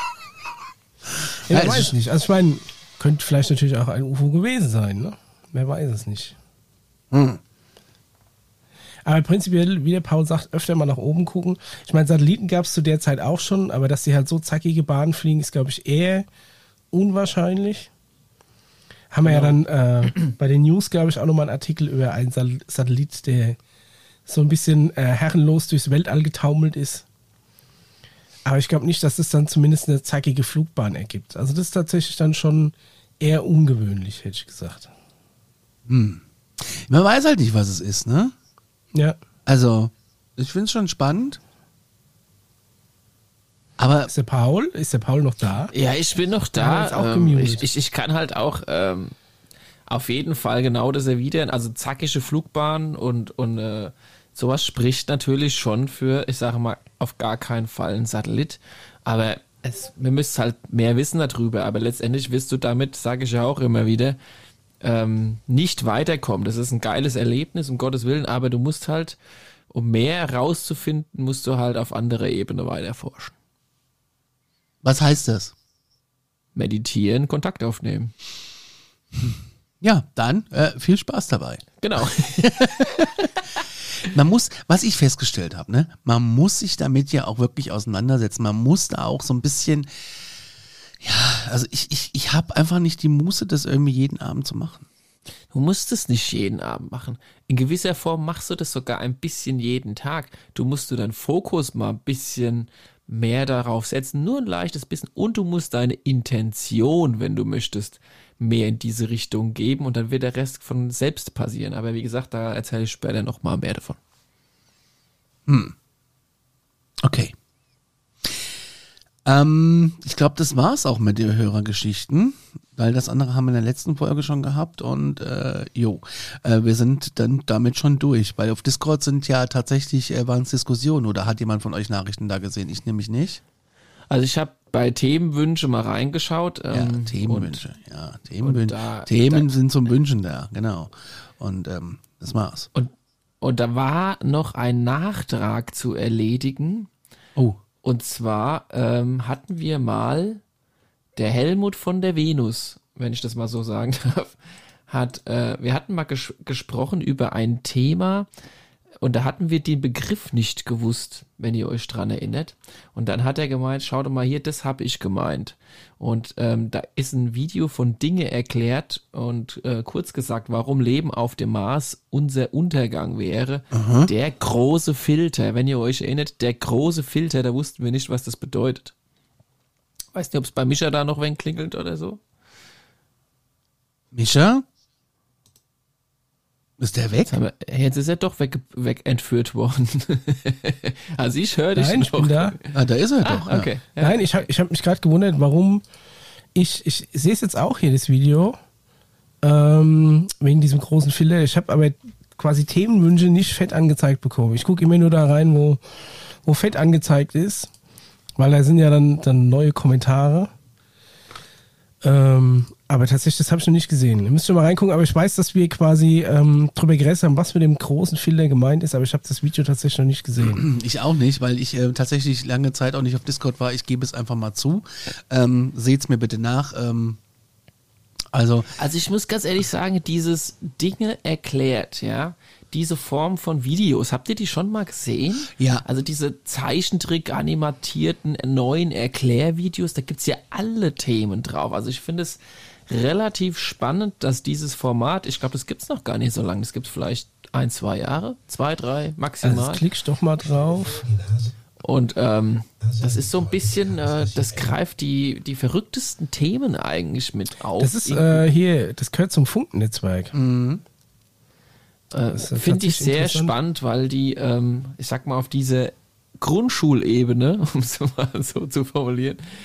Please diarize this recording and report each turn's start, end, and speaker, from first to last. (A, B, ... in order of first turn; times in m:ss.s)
0:01.3-0:01.9 A
0:01.5-0:06.4 B
0:07.1-0:07.4 A
0:09.0-0:16.3 B
0:16.9-0:17.9 B
0:19.1-0:23.6 B
0:19.2-0:19.6 C
0:24.3-0:27.0 B
0:28.5-0:34.9 B
0:35.9-0:38.3 A
0:39.5-0:41.4 A
0:43.8-0:44.1 A
0:44.1-0:45.7 B
0:45.7-0:49.1 C
0:46.6-0:47.6 B
0:49.9-1:04.2 C
1:04.8-1:09.2 C
1:09.7-1:13.4 C
1:14.8-1:15.5 A
1:16.6-1:18.1 C
1:19.2-1:23.3 A
1:21.8-1:22.8 C
1:24.0-1:29.9 A
1:31.0-1:34.9 A
1:35.5-1:54.0 C
1:55.5-1:55.7 A
1:57.0-1:57.3 A
1:59.2-2:13.4 A
2:14.1-2:17.6 C
2:16.7-2:22.7 A
2:18.4-2:19.5 C
2:22.8-2:26.9 C
2:27.8-2:30.4 C
2:31.2-2:34.4 C
2:34.9-2:38.3 C
2:39.0-2:58.9 C
2:53.7-2:54.1 A
3:00.2-3:02.2 C
3:04.1-3:04.6 A
3:06.8-3:07.3 A
3:07.3-3:12.7 C
3:11.8-3:12.6 B
3:12.7-3:13.6 A
3:13.2-3:14.4 C
3:14.0-3:15.8 B
3:16.6-3:18.6 B
3:19.4-3:25.8 B
3:26.4-3:27.7 B
3:28.4-3:30.5 B
3:32.0-3:40.6 B
3:40.4-3:47.2 A
3:48.3-3:48.7 A
3:48.8-4:09.8 C
3:55.6-3:55.8 A
4:09.4-4:11.1 B
4:11.8-4:18.5 C
4:17.8-4:20.3 B
4:20.3-4:20.8 A
4:22.1-4:29.4 C
4:22.3-4:23.5 B